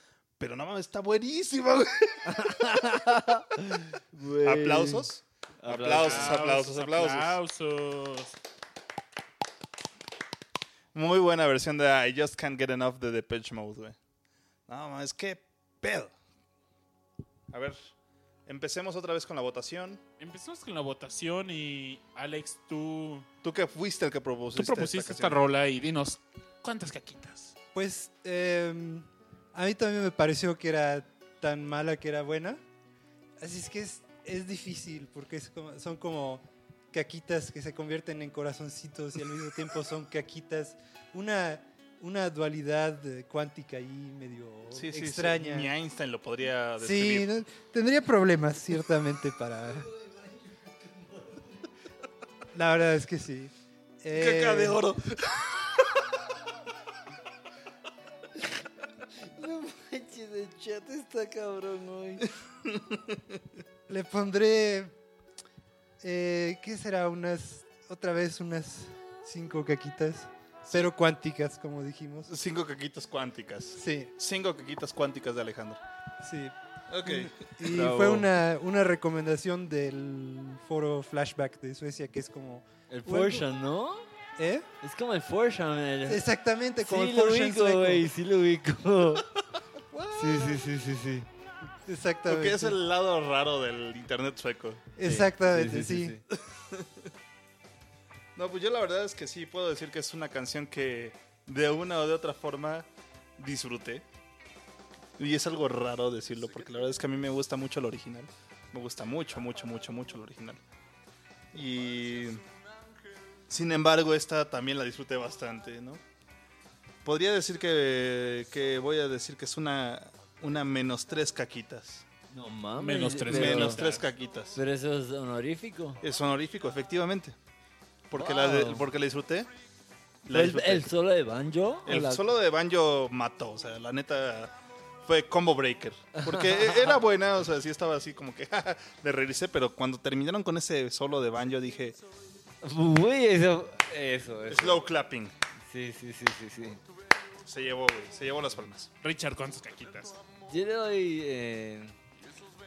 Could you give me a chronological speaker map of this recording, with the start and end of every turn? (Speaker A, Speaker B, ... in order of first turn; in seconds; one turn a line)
Speaker A: 0.4-2.3
Speaker B: 2.2-5.1
Speaker A: 4.4-7.4
Speaker B: 5.6-6.3
Speaker C: 5.8-8.3
Speaker A: 10.9-14.0
Speaker A: 14.7-16.1
Speaker A: 17.5-17.9
Speaker A: 18.4-20.0
Speaker C: 20.2-23.2
Speaker A: 23.4-25.4
Speaker C: 24.5-27.6
Speaker D: 27.7-32.6
Speaker D: 33.4-45.7
Speaker A: 44.7-47.3
Speaker D: 46.8-49.9
Speaker B: 49.9-50.3
Speaker D: 52.5-53.5
Speaker D: 54.0-54.8
Speaker A: 54.1-56.0
Speaker B: 59.3-62.3
Speaker A: 62.7-63.1
Speaker D: 63.9-64.9
Speaker D: 66.0-72.3
Speaker A: 72.3-75.8
Speaker D: 73.8-74.1
Speaker D: 76.2-83.5
Speaker A: 76.9-77.5
Speaker B: 77.6-78.3
Speaker B: 82.9-84.1
Speaker D: 84.4-84.7
Speaker B: 84.8-86.2
Speaker D: 86.1-88.0
Speaker B: 86.8-89.3
Speaker A: 89.9-90.6
Speaker B: 90.1-91.3
Speaker D: 91.8-92.8
Speaker A: 92.2-94.9
Speaker D: 95.0-96.2
Speaker B: 95.0-96.2
Speaker A: 96.3-96.9
Speaker A: 98.3-104.0
Speaker A: 105.2-110.6
Speaker A: 111.5-112.4
Speaker A: 113.5-116.0
Speaker A: 117.0-122.0
Speaker B: 122.3-123.8
Speaker C: 122.8-124.0
Speaker A: 123.2-124.6
Speaker B: 124.5-126.0
Speaker A: 126.0-127.3
Speaker A: 128.1-129.5
Speaker B: 128.1-128.8
Speaker A: 130.2-130.9
Speaker B: 130.3-132.2
Speaker A: 131.9-134.5
Speaker A: 135.1-142.0
Speaker B: 136.2-137.0
Speaker B: 142.6-144.9
Speaker A: 144.5-145.3
Speaker B: 145.7-146.8
Speaker A: 147.4-148.9
Speaker C: 149.0-150.2
Speaker B: 150.5-151.9